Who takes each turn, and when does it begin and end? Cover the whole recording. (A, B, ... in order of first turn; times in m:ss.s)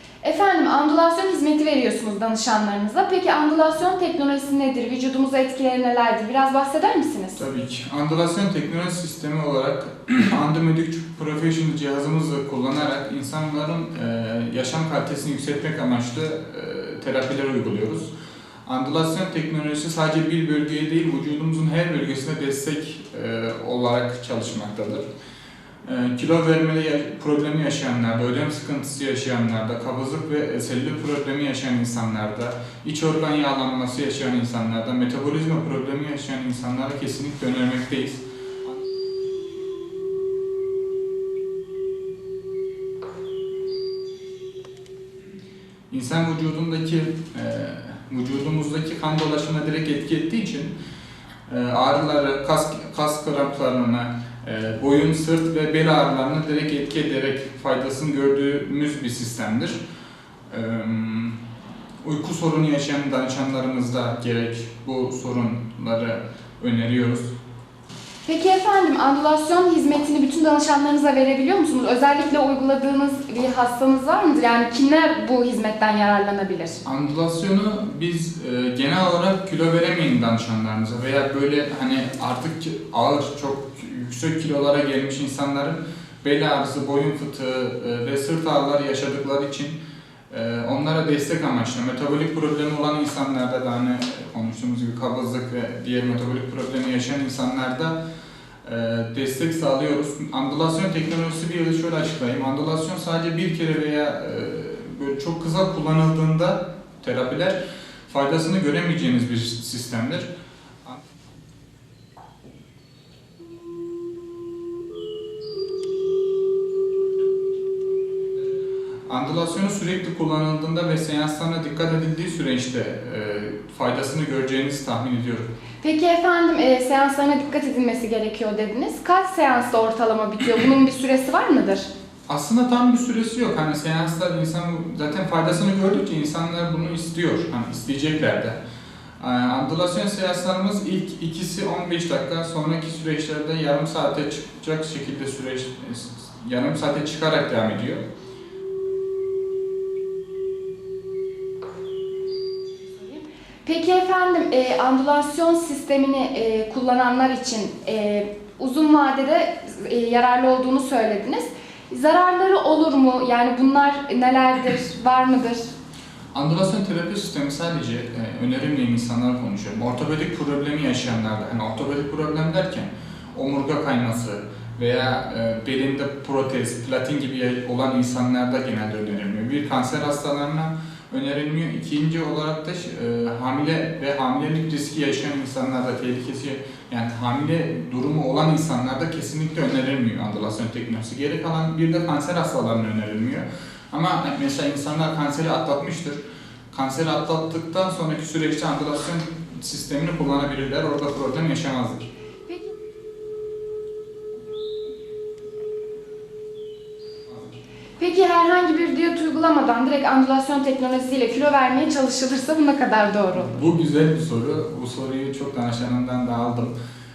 0:00.2-0:07.4 A
0:07.4-0:18.1 B
0:18.6-0:25.0 B
0:25.8-0:38.2 B
0:45.9-0:50.8 B
0:51.5-0:59.8 B
1:00.5-1:01.4 B
1:02.0-1:07.3 B
1:08.2-1:16.8 A
1:16.8-1:29.8 B
1:30.3-1:38.0 B
1:38.6-1:50.3 B
1:59.1-2:05.5 B
2:05.8-2:11.9 A
2:12.3-2:18.6 B
2:19.2-2:28.0 B
2:32.8-2:45.7 A
2:46.3-3:16.2 B
3:16.7-3:22.1 B
3:28.0-3:33.7 A
3:33.3-3:36.7 B